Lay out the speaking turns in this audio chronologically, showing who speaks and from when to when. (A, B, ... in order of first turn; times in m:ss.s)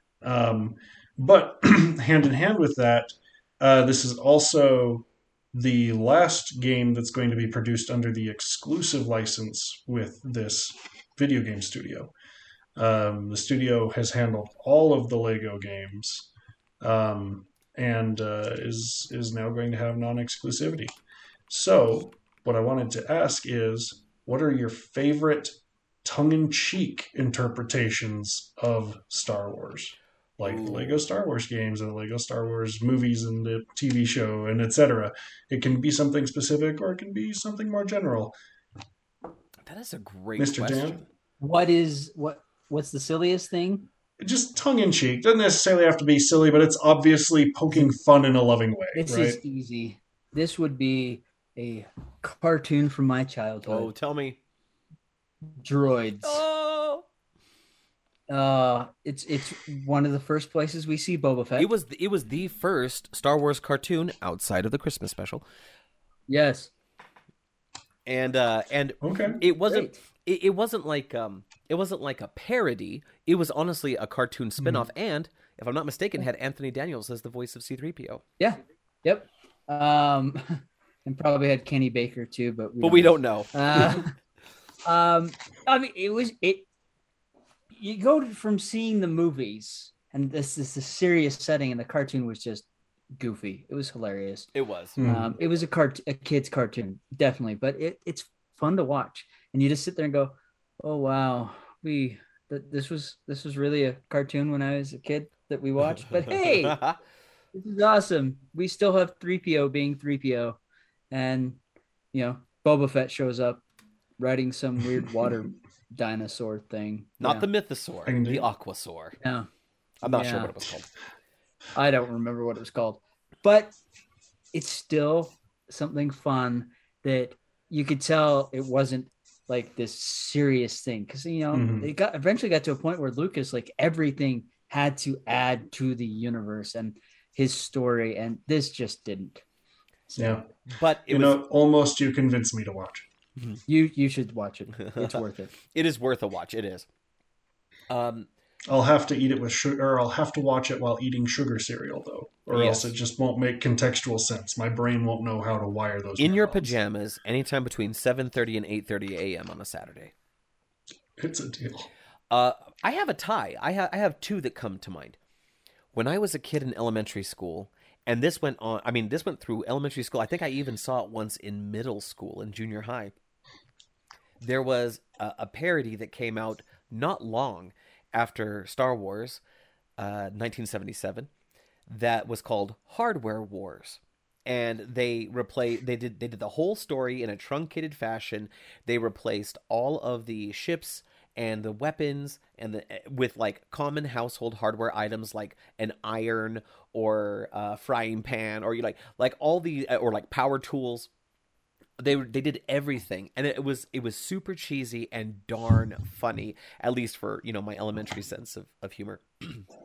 0:00.2-0:12.1 A
0:12.8-0:16.3 A
0:16.8-0:20.9 A
0:21.5-0:38.3 A
0:30.4-0:31.0 B
0:39.6-0:41.0 B
0:40.4-0:41.0 A
0:41.4-0:43.9 C
0:44.2-0:49.4 A
0:48.9-0:53.9 C
0:53.7-0:54.4 B
0:55.6-0:56.4 C
0:56.2-0:57.0 B
0:58.3-1:01.7 C
1:01.6-1:05.4 B
1:06.3-1:06.7 C
1:08.0-1:18.2 B
1:09.0-1:09.4 A
1:09.7-1:10.0 C
1:14.6-1:14.9 A
1:18.4-1:24.1 C
1:22.8-1:24.0 B
1:24.9-1:26.7 C
1:27.7-1:32.6 C
1:33.2-1:34.5 C
1:34.5-1:35.0 B
1:35.0-1:35.3 A
1:35.0-1:46.8 C
1:46.1-1:47.0 B
1:47.5-1:50.6 C
1:51.1-1:51.6 C
1:52.1-1:53.6 C
1:54.2-1:57.4 C
1:57.2-1:59.2 B
1:58.0-1:58.5 A
1:59.2-1:59.5 C
2:00.0-2:00.9 B
2:00.0-2:00.5 C
2:01.7-2:03.8 C
2:04.5-2:19.4 C
2:11.5-2:11.9 A
2:20.2-2:20.6 A
2:20.7-2:21.4 B
2:21.1-2:23.1 A
2:23.7-2:25.5 C
2:24.8-2:26.9 B
2:27.9-2:28.3 B
2:28.6-2:36.7 A
2:32.5-2:32.9 B
2:36.2-2:40.1 B
2:41.2-2:41.9 A
2:42.3-2:45.2 B
2:45.9-2:53.1 B
2:54.4-2:59.4 B
3:00.0-3:01.3 B
3:01.9-3:21.1 B
3:22.0-3:29.6 B